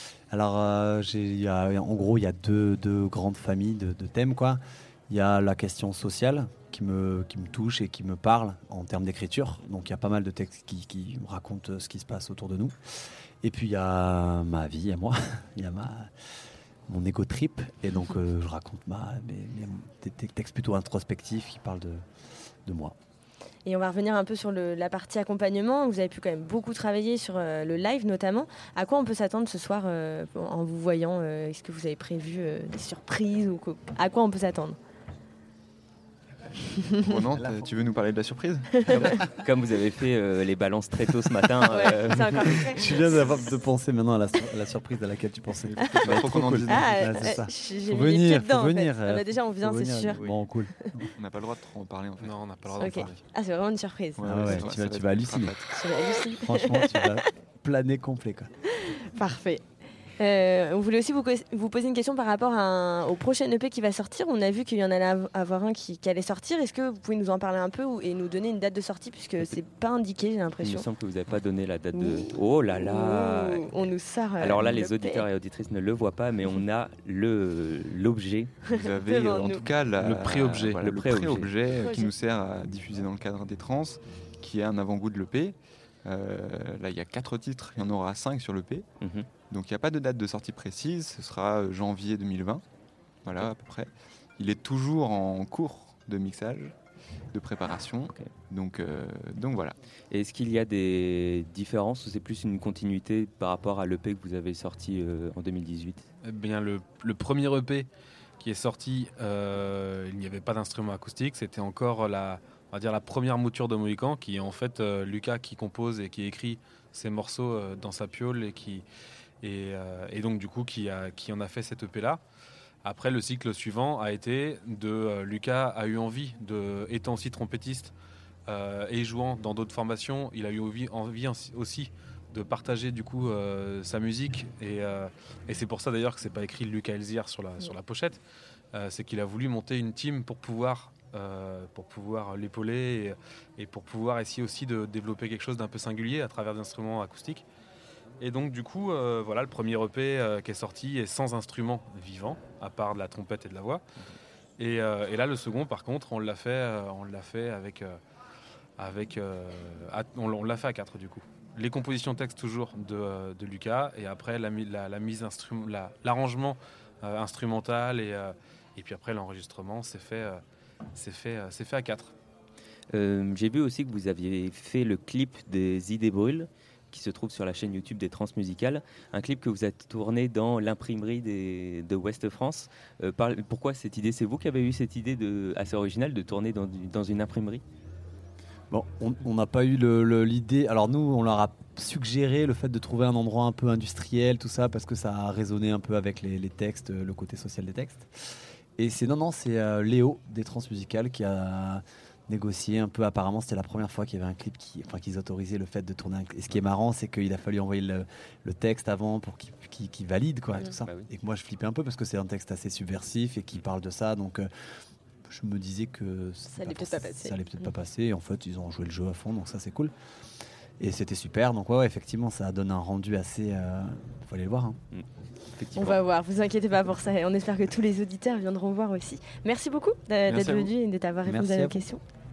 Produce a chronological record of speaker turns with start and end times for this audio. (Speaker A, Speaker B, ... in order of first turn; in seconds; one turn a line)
Speaker A: 0.3-12.7
Speaker A: 13.4-16.1
Speaker A: 16.9-22.0
Speaker A: 22.6-22.9
Speaker B: 23.6-34.8
Speaker C: 37.0-39.2
Speaker A: 39.0-39.3
Speaker D: 39.4-42.5
Speaker B: 41.7-43.5
Speaker A: 42.5-51.1
Speaker C: 45.8-47.3
Speaker B: 45.8-46.1
Speaker B: 46.7-50.9
Speaker C: 51.1-53.1
Speaker E: 52.2-53.2
Speaker B: 52.8-54.6
Speaker C: 54.1-55.8
Speaker A: 54.2-55.6
Speaker B: 55.7-57.2
Speaker A: 56.3-58.5
Speaker B: 58.7-59.6
Speaker B: 60.2-70.9
Speaker D: 70.6-73.7
Speaker B: 71.9-75.2
Speaker D: 74.4-78.5
Speaker B: 78.7-79.7
Speaker C: 78.7-88.9
Speaker E: 80.0-80.8
Speaker D: 80.8-81.5
Speaker B: 81.8-82.1
Speaker D: 89.0-89.3
Speaker C: 89.5-92.6
Speaker C: 93.2-96.7
Speaker C: 97.3-99.8
Speaker D: 100.1-106.0
Speaker E: 106.2-107.9
Speaker E: 108.4-118.8
Speaker E: 119.4-122.2
Speaker E: 122.8-127.9
Speaker E: 128.5-138.2
Speaker E: 138.7-147.4
Speaker E: 148.2-153.8
Speaker E: 154.6-158.0
Speaker E: 158.8-170.4
Speaker E: 170.9-172.1
Speaker D: 172.9-187.6
Speaker A: 188.7-198.1
Speaker A: 198.8-214.5
Speaker A: 215.3-219.9
Speaker B: 216.5-217.4
Speaker A: 220.8-224.8
Speaker D: 224.9-226.0
Speaker B: 225.7-232.0
Speaker E: 230.3-230.7
Speaker A: 231.2-231.8